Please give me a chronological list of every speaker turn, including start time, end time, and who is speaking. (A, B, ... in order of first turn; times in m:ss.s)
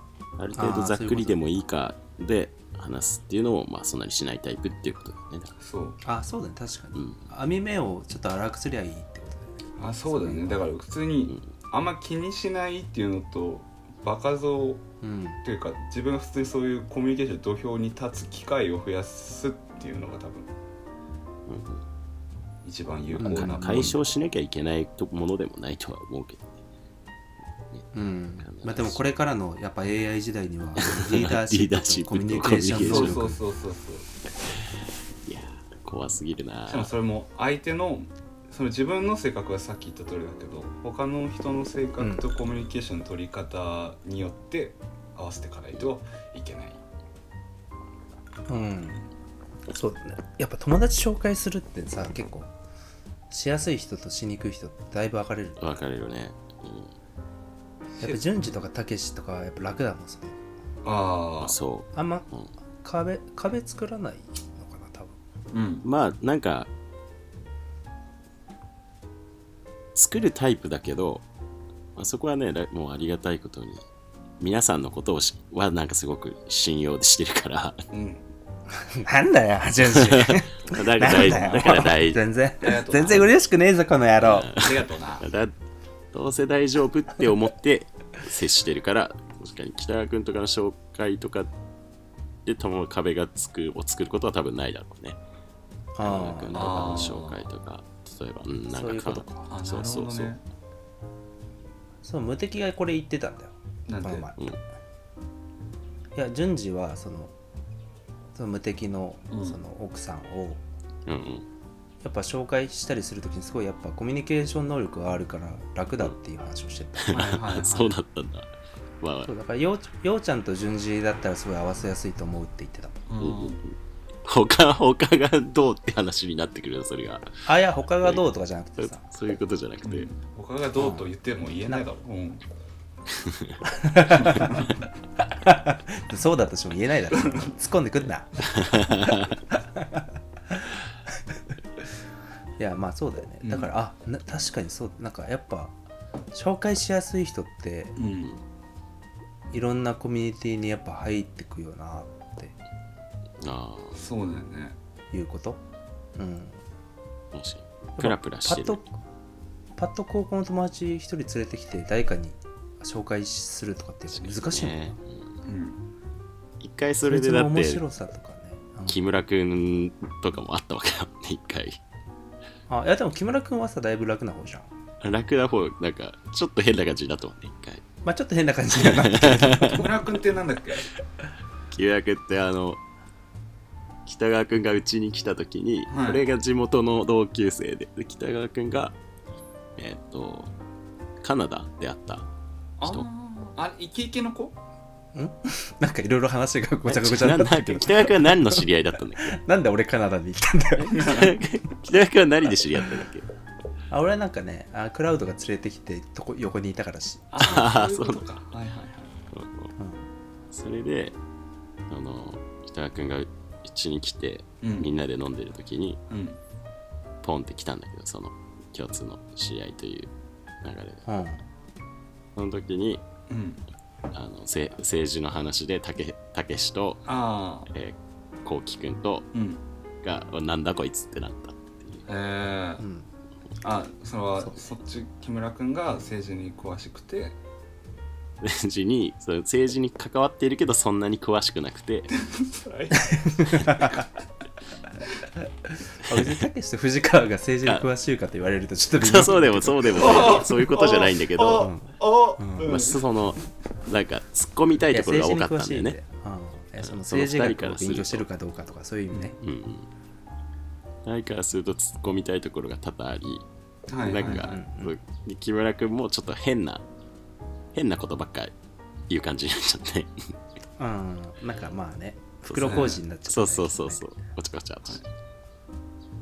0:00.4-0:05.5 A
0:00.5-0:01.4 B
0:05.6-0:06.0 C
0:06.0-0:10.7 B
0:06.9-0:07.2 A
0:09.8-0:14.8 C
0:15.0-0:15.4 B
0:15.4-0:20.5 C
0:21.5-0:21.8 A
0:22.6-0:24.0 C
0:23.1-0:26.5 A
0:23.2-0:23.8 B
0:27.9-0:33.4 B
0:28.4-0:29.0 A
0:30.8-0:33.2 A
0:32.7-0:34.1 C
0:35.2-0:36.9 A
0:36.7-0:46.8 C
0:48.5-0:49.0 B
0:49.7-0:52.5 B
0:53.3-0:55.6 B
0:55.6-0:56.9 A
0:58.0-1:00.4 B
1:00.8-1:01.6 C
1:01.4-1:02.5 A
1:01.9-1:02.2 B
1:02.8-1:05.2 B
1:05.5-1:05.8 C
1:05.8-1:06.7 A
1:09.9-1:11.2 A
1:12.0-1:13.8 A
1:14.4-1:17.8 A
1:17.9-1:18.2 C
1:18.8-1:24.6 B
1:19.9-1:22.2 A
1:21.1-1:21.8 C
1:22.6-1:23.3 C
1:24.2-1:25.5 A
1:24.5-1:25.2 C
1:26.1-1:31.5 A
1:32.4-1:35.2 A
1:36.0-1:36.8 B
1:36.0-1:40.3 A
1:36.5-1:37.4 C
1:38.7-1:39.5 B
1:39.5-1:40.4 C
1:42.0-1:44.4 B
1:43.9-1:44.3 C
1:46.1-1:47.3 B
1:48.3-1:50.6 B
1:49.3-1:49.6 C
1:51.0-1:51.5 A
1:52.0-1:57.3 B
1:57.0-1:59.3 A
1:57.1-1:58.0 C
1:59.2-2:03.0 B
2:03.1-2:03.6 C
2:03.2-2:07.4 A
2:07.4-2:09.1 B
2:08.8-2:10.1 A
2:09.8-2:12.4 C
2:10.8-2:11.0 B
2:13.1-2:13.6 A
2:13.6-2:14.7 B
2:14.2-2:14.7 C
2:15.3-2:20.7 B
2:18.5-2:19.3 A
2:22.6-2:25.7 B
2:23.4-2:23.7 C
2:26.3-2:28.0 B
2:28.0-2:28.3 C
2:29.5-2:32.5 B
2:33.4-2:34.0 A
2:33.9-2:34.8 C
2:35.1-2:35.6 B
2:36.2-2:36.6 B
2:37.3-2:38.8 A
2:38.0-2:38.9 B
2:39.8-2:44.9 B
2:44.1-2:45.3 A
2:45.4-2:45.8 C
2:46.6-2:47.8 A
2:47.0-2:49.0 B
2:48.9-2:51.8 A
2:52.7-2:54.7 B
2:55.0-2:57.8 A
2:58.0-2:59.9 B
2:58.8-2:59.8 A
2:59.6-3:00.9 C
3:01.7-3:02.8 A
3:04.0-3:09.0 A
3:05.9-3:06.2 C
3:09.8-3:10.5 A
3:11.2-3:12.2 A
3:12.8-3:14.6 C
3:12.8-3:13.1 A
3:15.1-3:18.6 B
3:16.9-3:19.4 A
3:19.2-3:21.2 B
3:20.8-3:23.3 A
3:20.9-3:21.3 C
3:23.9-3:27.3 B
3:27.3-3:29.1 C
3:27.4-3:28.2 A
3:29.3-3:29.7 A
3:30.5-3:31.2 A
3:31.9-3:36.0 A
3:34.6-3:34.9 C
3:36.1-3:36.4 C
3:37.2-3:40.1 A
3:40.6-3:41.0 A
3:41.0-3:41.4 B
3:42.3-3:43.0 A
3:43.3-3:43.6 C
3:44.1-3:47.0 A
3:47.0-3:47.7 C
3:47.7-3:49.3 A
3:49.3-3:49.6 C
3:50.0-3:52.0 A
3:52.1-3:52.8 C
3:52.8-3:53.1 B
3:53.6-3:57.4 C
3:58.4-4:02.1 A
4:02.2-4:04.0 C
4:03.0-4:04.0 B
4:05.9-4:10.4 B
4:09.0-4:11.7 A
4:10.0-4:13.0 C
4:11.6-4:12.7 B
4:12.6-4:16.0 A
4:14.9-4:19.4 B
4:16.8-4:18.2 A
4:19.4-4:19.9 A
4:21.0-4:23.4 A
4:23.9-4:24.5 C
4:24.0-4:26.8 A
4:24.2-4:24.9 B
4:27.7-4:28.5 A
4:29.1-4:30.1 A
4:30.8-4:34.0 B
4:32.5-4:35.0 A
4:32.6-4:33.0 C